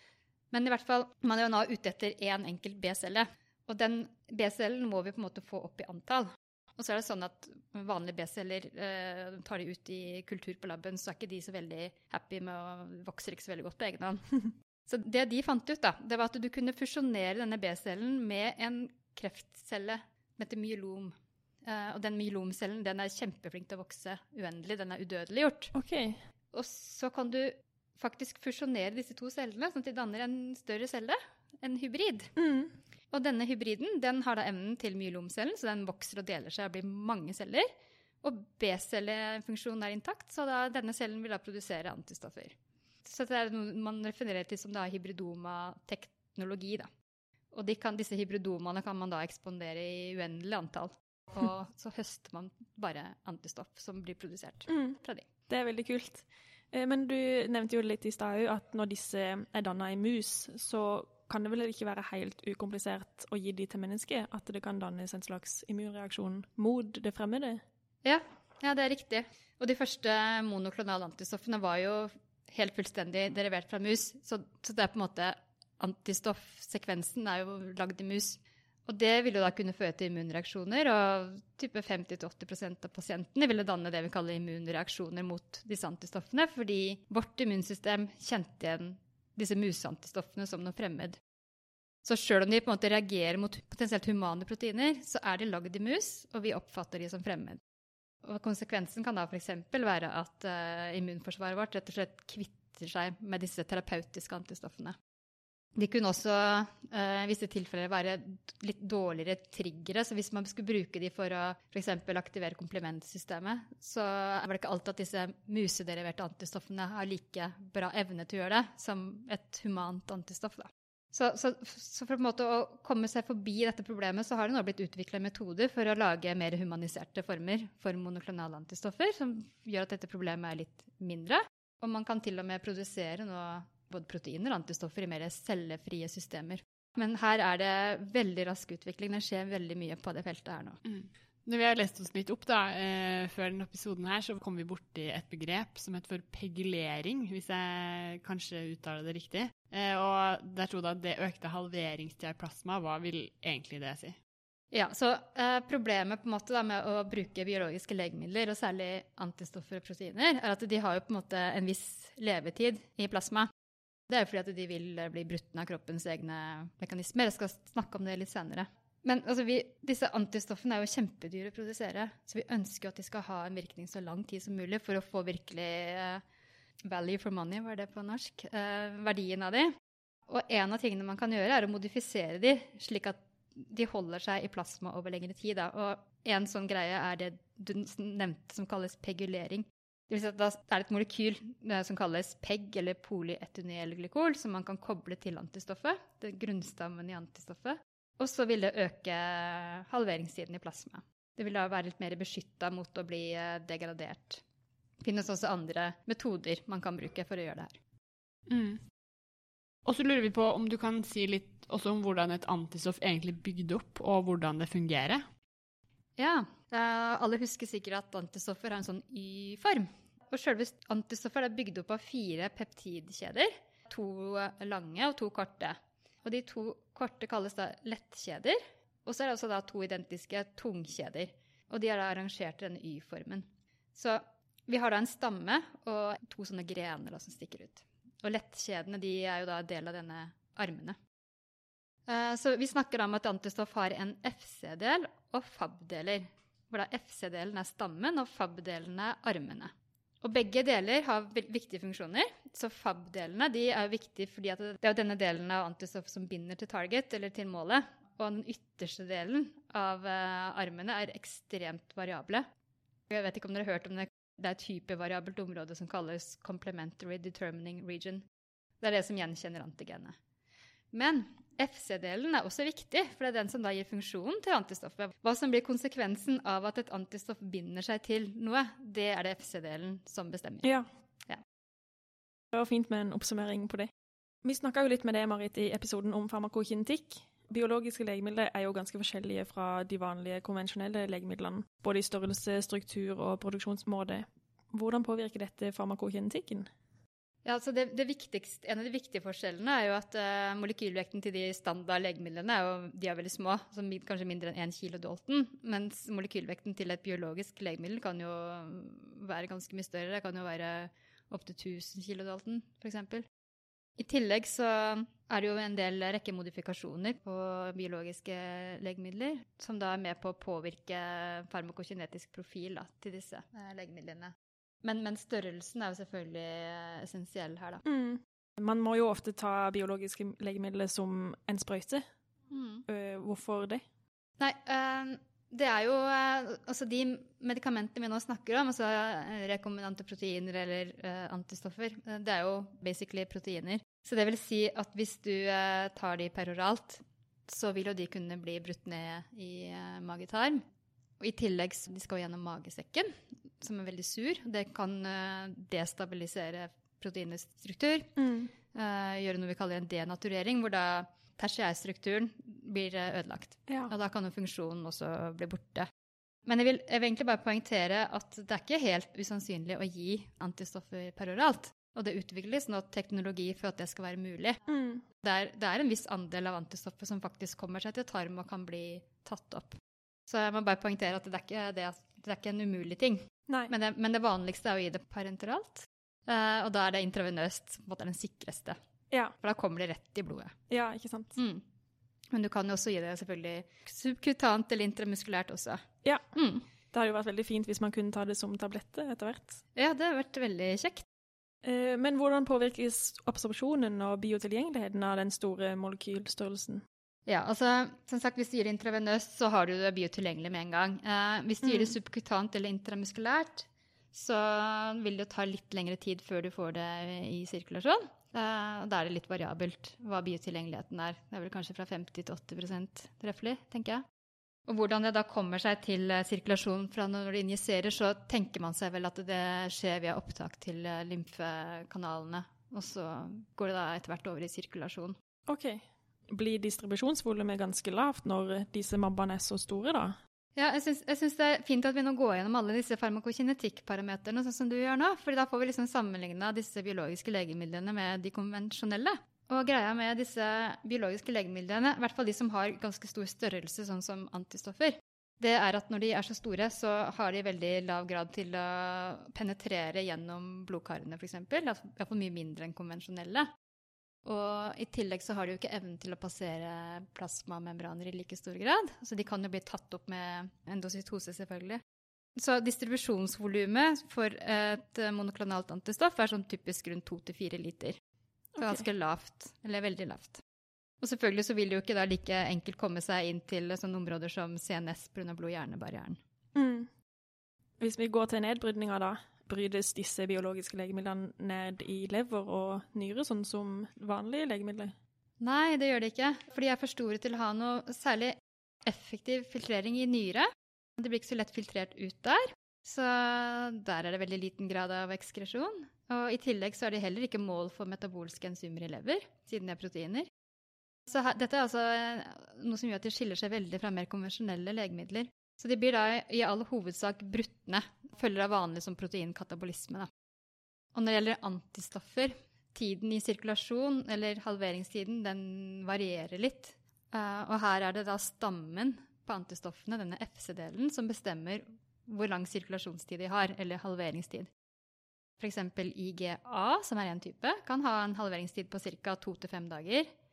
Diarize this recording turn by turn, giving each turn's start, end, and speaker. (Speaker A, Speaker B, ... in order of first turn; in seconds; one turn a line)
Speaker A: 0.5-25.7
Speaker B: 25.7-26.2
Speaker A: 26.5-32.3
Speaker B: 32.4-32.7
Speaker A: 33.1-37.7
Speaker A: 38.2-46.9
Speaker A: 47.5-55.3
Speaker B: 54.7-55.0
Speaker B: 55.5-67.6
Speaker A: 68.0-91.2
Speaker A: 92.0-97.6
Speaker A: 98.2-105.0
Speaker A: 105.8-140.8
Speaker C: 140.9-154.2
Speaker A: 154.7-163.5
Speaker A: 164.1-176.2
Speaker A: 176.8-179.7
Speaker A: 180.3-204.4
Speaker A: 205.0-207.8
Speaker C: 208.5-208.8
Speaker C: 209.8-215.2
Speaker A: 216.2-241.0
Speaker A: 242.1-262.5
Speaker A: 263.1-268.2
Speaker A: 268.8-270.2
Speaker A: 270.9-280.7
Speaker B: 282.5-283.9
Speaker B: 284.4-296.7
Speaker A: 297.4-313.3
Speaker A: 314.0-327.8
Speaker B: 327.8-332.1
Speaker A: 332.5-332.9
Speaker B: 332.9-333.9
Speaker A: 334.4-350.6
Speaker A: 351.2-358.1
Speaker B: 358.2-358.5
Speaker A: 358.7-365.9
Speaker A: 366.5-374.6
Speaker B: 374.7-375.0
Speaker A: 375.2-388.8
Speaker A: 389.4-390.6
Speaker B: 390.7-391.4
Speaker A: 391.4-391.6
Speaker A: 392.3-396.6
Speaker B: 396.9-399.6
Speaker A: 399.8-401.1
Speaker B: 401.6-406.8
Speaker A: 407.3-424.0
Speaker B: 411.6-411.9
Speaker A: 424.7-435.2
Speaker B: 435.5-440.2
Speaker A: 440.6-463.5
Speaker A: 464.2-471.8
Speaker A: 472.4-478.0
Speaker B: 478.6-478.9
Speaker A: 478.6-480.4
Speaker A: 481.0-486.2
Speaker B: 486.6-486.9
Speaker B: 487.8-494.9
Speaker A: 495.4-510.3
Speaker A: 511.1-520.1
Speaker A: 521.0-534.5
Speaker A: 535.4-540.1